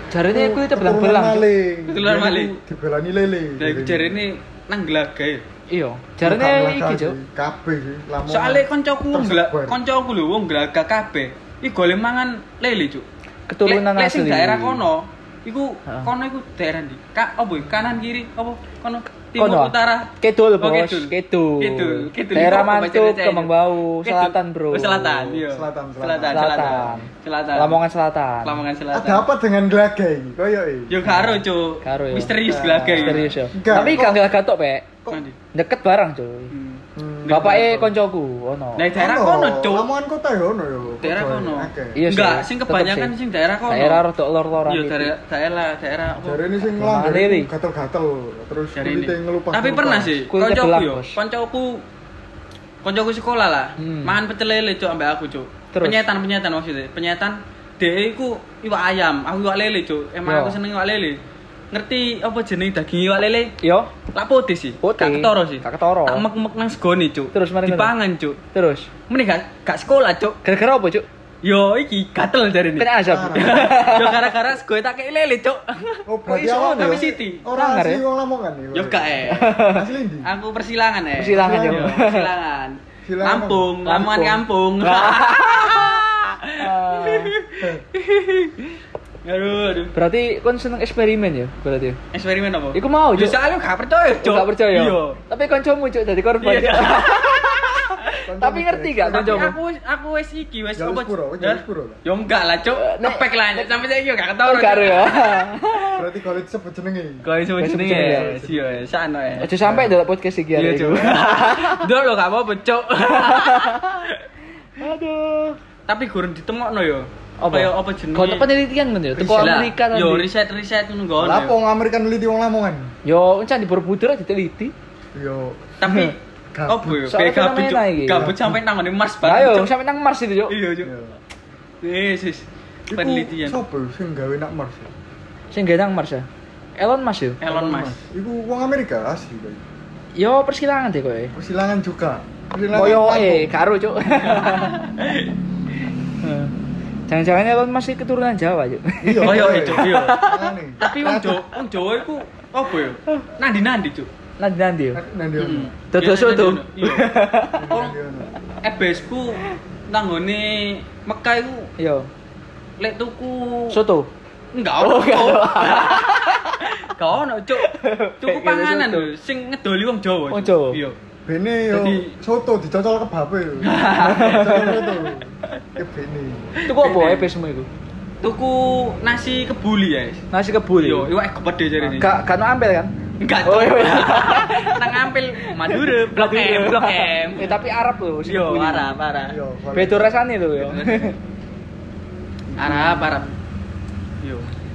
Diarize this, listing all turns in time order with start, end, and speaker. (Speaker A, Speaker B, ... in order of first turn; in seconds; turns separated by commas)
Speaker A: 0.1-1.5, Speaker B: 0.3-4.2, Speaker C: 1.9-2.6, Speaker C: 3.6-5.4, Speaker A: 5.7-7.2, Speaker B: 6.2-9.8, Speaker C: 8.3-13.1, Speaker A: 13.5-14.8, Speaker C: 13.6-27.8, Speaker A: 19.3-25.4, Speaker B: 25.5-27.0, Speaker A: 26.3-28.6, Speaker C: 28.4-29.3, Speaker B: 28.9-31.0, Speaker C: 30.9-34.1, Speaker A: 31.0-34.9, Speaker B: 32.5-34.2, Speaker C: 35.1-35.4, Speaker A: 35.5-36.5, Speaker C: 36.5-37.8, Speaker B: 37.0-37.9, Speaker A: 37.3-38.9, Speaker C: 38.8-39.9, Speaker B: 38.9-42.0, Speaker C: 41.0-44.0, Speaker A: 41.9-43.1, Speaker A: 43.7-45.1, Speaker C: 44.6-46.5, Speaker B: 46.2-50.1, Speaker A: 46.7-47.5, Speaker C: 48.8-51.8, Speaker A: 50.3-51.2, Speaker C: 52.8-61.2, Speaker A: 53.8-54.2, Speaker A: 55.7-56.0, Speaker A: 60.2-60.6, Speaker C: 61.7-63.5, Speaker A: 63.6-63.9, Speaker C: 64.1-68.4, Speaker A: 64.8-66.2, Speaker A: 67.3-67.9, Speaker A: 68.5-68.9, Speaker C: 69.1-70.4, Speaker A: 70.4-71.0, Speaker C: 71.4-76.0, Speaker A: 72.8-74.3, Speaker B: 73.0-73.7, Speaker B: 76.1-80.3, Speaker A: 76.3-78.0, Speaker C: 76.7-77.5, Speaker C: 78.7-79.6, Speaker A: 79.3-79.8, Speaker C: 80.2-89.9, Speaker A: 81.2-82.3, Speaker B: 81.3-82.0, Speaker B: 83.0-83.7, Speaker A: 83.8-85.8, Speaker A: 86.6-87.3, Speaker A: 89.9-92.0, Speaker C: 92.1-95.2, Speaker A: 92.7-93.4, Speaker A: 94.2-99.5, Speaker C: 96.4-98.1, Speaker B: 98.3-99.5, Speaker C: 99.0-105.9, Speaker B: 100.8-102.0, Speaker A: 102.7-103.8, Speaker A: 104.4-105.9, Speaker B: 106.0-108.8, Speaker C: 107.2-109.5, Speaker A: 107.6-108.3, Speaker A: 109.4-111.8, Speaker B: 109.4-110.0, Speaker C: 110.5-114.2, Speaker A: 113.1-113.8, Speaker A: 114.8-115.5, Speaker C: 115.9-118.5, Speaker A: 117.4-120.3, Speaker B: 119.1-119.6, Speaker C: 119.3-121.5, Speaker B: 121.2-122.9, Speaker A: 123.0-124.7, Speaker B: 125.1-125.7, Speaker C: 125.8-129.7, Speaker A: 125.8-126.1, Speaker B: 126.5-127.1, Speaker A: 127.1-128.3, Speaker B: 128.2-128.6, Speaker A: 129.2-130.6, Speaker C: 130.5-130.9, Speaker B: 130.8-131.2, Speaker C: 131.8-133.6, Speaker B: 132.9-134.9, Speaker A: 135.5-137.4, Speaker C: 137.4-138.0, Speaker B: 137.5-139.6, Speaker A: 140.1-141.3, Speaker B: 141.3-143.5, Speaker A: 142.7-144.8, Speaker C: 144.2-145.3, Speaker A: 146.2-146.5, Speaker A: 147.1-150.5, Speaker B: 149.0-151.4, Speaker C: 149.2-150.2, Speaker C: 150.8-154.1, Speaker A: 154.4-155.0, Speaker B: 154.9-155.7, Speaker C: 155.4-157.1, Speaker A: 155.9-157.7, Speaker B: 157.5-158.3, Speaker C: 157.7-157.9, Speaker C: 158.6-161.7, Speaker A: 161.8-162.1, Speaker C: 162.8-163.8, Speaker A: 163.7-164.1, Speaker C: 164.5-171.0, Speaker A: 164.8-166.6, Speaker A: 167.6-169.1, Speaker A: 170.3-170.8, Speaker B: 171.2-176.5, Speaker C: 171.7-172.1, Speaker C: 173.6-174.8, Speaker A: 174.0-174.9, Speaker A: 176.7-177.7, Speaker C: 176.7-177.3, Speaker C: 178.2-180.2, Speaker A: 180.3-181.1, Speaker C: 180.8-182.1, Speaker B: 181.8-182.1, Speaker A: 182.0-188.9, Speaker C: 183.2-187.6, Speaker C: 188.2-189.4, Speaker B: 189.3-190.2, Speaker A: 189.7-191.1, Speaker C: 190.6-191.2, Speaker B: 192.5-193.3, Speaker C: 192.6-193.3, Speaker C: 194.2-194.5